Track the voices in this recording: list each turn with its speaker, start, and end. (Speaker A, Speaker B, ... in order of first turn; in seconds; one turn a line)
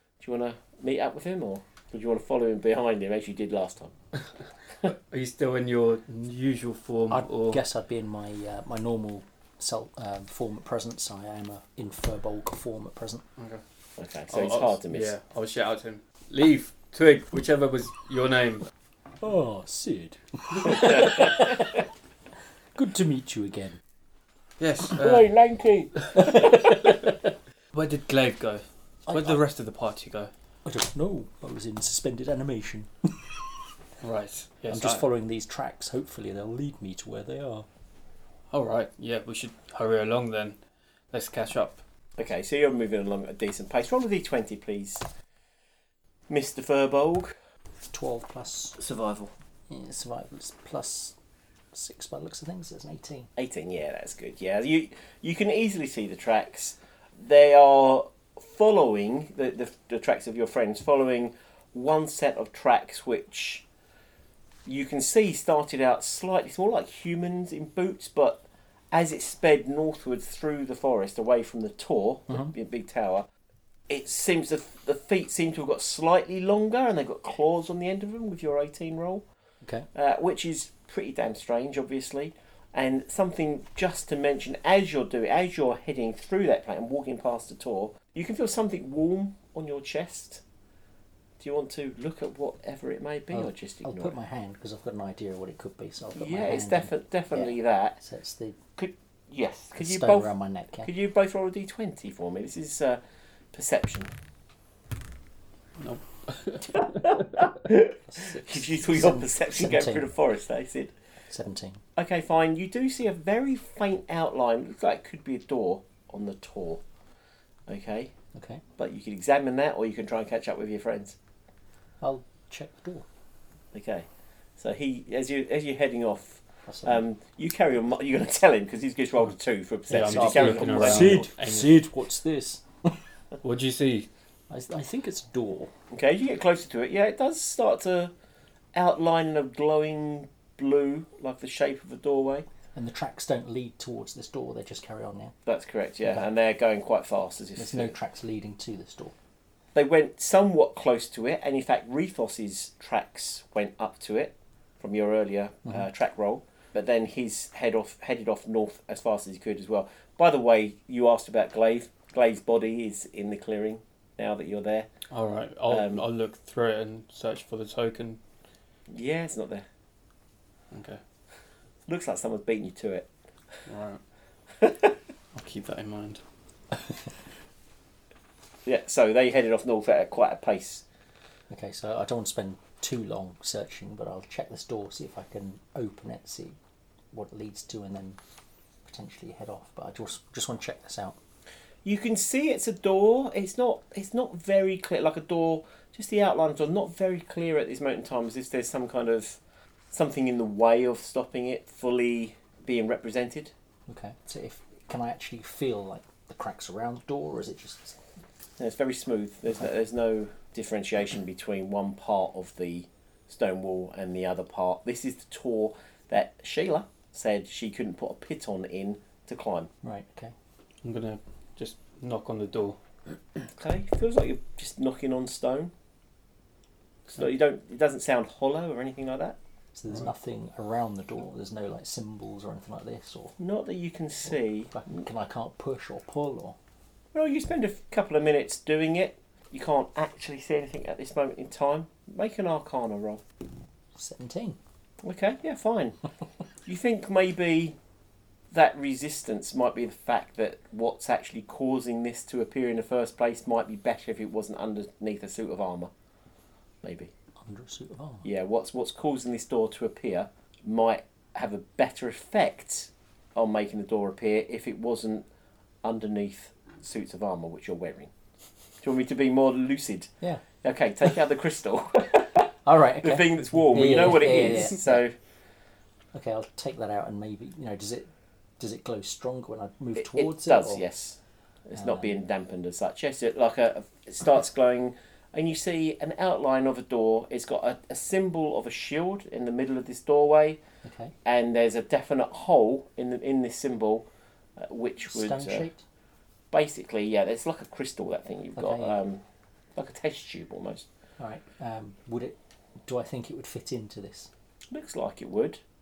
Speaker A: 0.2-3.9
Speaker B: 4.9-7.6
Speaker C: 7.1-13.2
Speaker B: 13.4-13.6
Speaker A: 14.0-15.1
Speaker B: 14.3-18.7
Speaker C: 19.2-21.8
Speaker C: 22.8-23.8
Speaker B: 24.6-25.3
Speaker A: 24.9-26.9
Speaker C: 26.1-27.1
Speaker B: 27.7-30.3
Speaker C: 29.1-29.4
Speaker C: 30.6-33.4
Speaker B: 34.0-35.0
Speaker C: 34.7-37.7
Speaker B: 38.5-40.6
Speaker B: 41.1-41.8
Speaker A: 42.2-45.0
Speaker A: 46.3-47.4
Speaker C: 47.8-48.8
Speaker A: 48.8-49.3
Speaker C: 49.7-51.2
Speaker C: 51.7-53.3
Speaker A: 53.4-63.7
Speaker A: 64.7-73.3
Speaker C: 72.3-72.5
Speaker A: 73.9-79.2
Speaker C: 79.6-79.9
Speaker A: 79.9-90.4
Speaker A: 91.4-94.2
Speaker C: 93.3-98.6
Speaker A: 96.2-98.0
Speaker A: 98.8-100.3
Speaker C: 99.8-100.9
Speaker A: 100.8-103.0
Speaker A: 103.5-104.1
Speaker B: 105.8-107.5
Speaker A: 107.0-110.9
Speaker C: 108.0-110.1
Speaker C: 111.3-111.8
Speaker A: 112.0-116.8
Speaker A: 117.7-118.1
Speaker C: 118.3-118.6
Speaker A: 118.8-121.2
Speaker C: 122.0-123.1
Speaker A: 123.7-124.1
Speaker A: 124.6-131.2
Speaker C: 126.7-127.0
Speaker C: 129.9-133.0
Speaker B: 129.9-131.8
Speaker B: 133.4-134.1
Speaker C: 134.5-135.7
Speaker A: 135.9-138.1
Speaker A: 138.8-142.5
Speaker C: 142.7-145.3
Speaker A: 145.5-147.9
Speaker C: 147.6-149.2
Speaker A: 149.8-164.9
Speaker B: 165.1-168.2
Speaker A: 165.7-166.1
Speaker A: 168.9-169.7
Speaker B: 170.7-171.0
Speaker A: 171.9-173.1
Speaker B: 173.7-174.0
Speaker A: 174.6-174.9
Speaker B: 175.3-176.2
Speaker A: 178.7-180.8
Speaker C: 181.5-186.6
Speaker C: 187.1-188.2
Speaker C: 188.8-191.2
Speaker A: 191.8-199.4
Speaker A: 199.9-203.5
Speaker C: 203.9-208.0
Speaker A: 208.6-219.7
Speaker C: 219.8-220.3
Speaker B: 220.8-222.8
Speaker A: 223.6-225.7
Speaker A: 227.1-229.4
Speaker C: 229.8-233.4
Speaker A: 233.4-234.8
Speaker C: 234.3-236.6
Speaker A: 237.1-243.2
Speaker C: 243.9-244.6
Speaker A: 245.0-246.0
Speaker A: 246.6-247.8
Speaker A: 248.5-255.9
Speaker A: 256.8-257.1
Speaker C: 257.4-258.3
Speaker A: 258.2-265.3
Speaker A: 265.8-268.1
Speaker A: 268.8-272.4
Speaker C: 272.6-275.0
Speaker A: 273.0-275.1
Speaker C: 276.1-280.9
Speaker A: 280.0-290.6
Speaker C: 281.8-282.1
Speaker C: 290.8-291.1
Speaker A: 291.2-295.7
Speaker C: 295.0-295.8
Speaker A: 296.5-299.2
Speaker C: 298.6-299.0
Speaker A: 299.8-300.9
Speaker C: 301.2-304.3
Speaker A: 304.7-305.6